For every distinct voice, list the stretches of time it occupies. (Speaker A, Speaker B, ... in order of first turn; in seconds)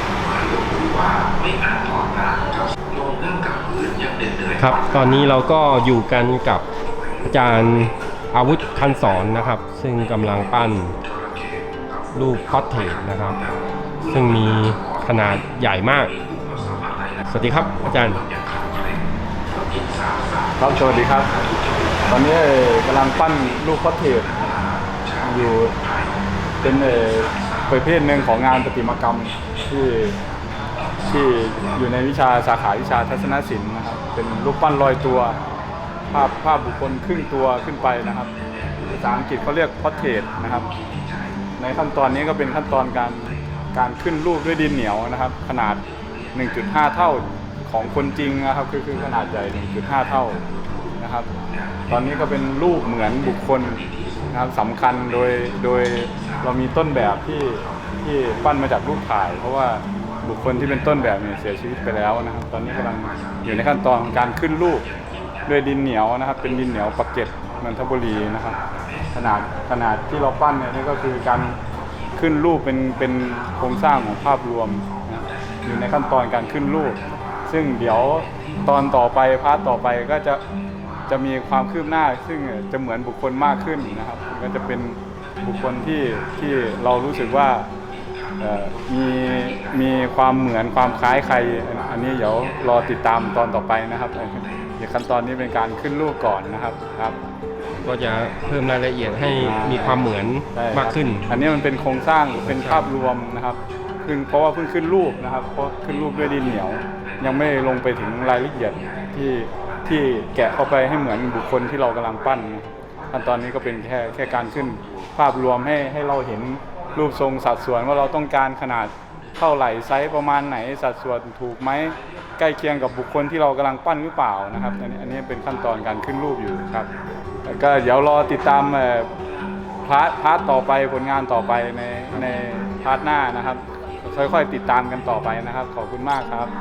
Speaker A: 0.2-5.0, 9.0-9.3, 10.2-10.6, 11.1-13.3, 14.0-15.5, 16.1-22.1, 24.4-26.1, 26.6-27.7, 31.1-31.8, 37.9-39.1, 40.6-41.3, 42.4-43.6, 46.0-46.8, 49.1-51.0, 51.6-58.6, 60.1-62.1, 62.7-65.5, 66.4-69.7, 70.3-71.2, 71.8-72.2, 73.2-74.3, 74.8-79.2, 83.6-84.4, 85.4-87.2, 88.7-94.7, 95.4-97.0, 98.2-100.2, 101.5-102.3, 103.8-104.2, 105.9-111.5, 113.2-115.2, 125.7-126.3, 132.7-133.1
Speaker B: 4.6-6.6, 7.2-10.9, 12.1-13.4, 14.0-16.1, 17.3-18.2, 97.7-101.4, 102.3-102.9
Speaker C: 20.6-21.3, 22.1-24.3, 25.2-25.8, 26.6-30.1, 31.1-35.4, 36.1-38.3, 38.9-40.7, 41.6-45.8, 46.3-50.4, 51.0-51.3, 51.9-64.8, 65.5-68.6, 69.1-71.5, 72.2-80.4, 81.1-87.7, 88.4-97.2, 99.3-126.9, 127.5-129.1, 129.8-136.5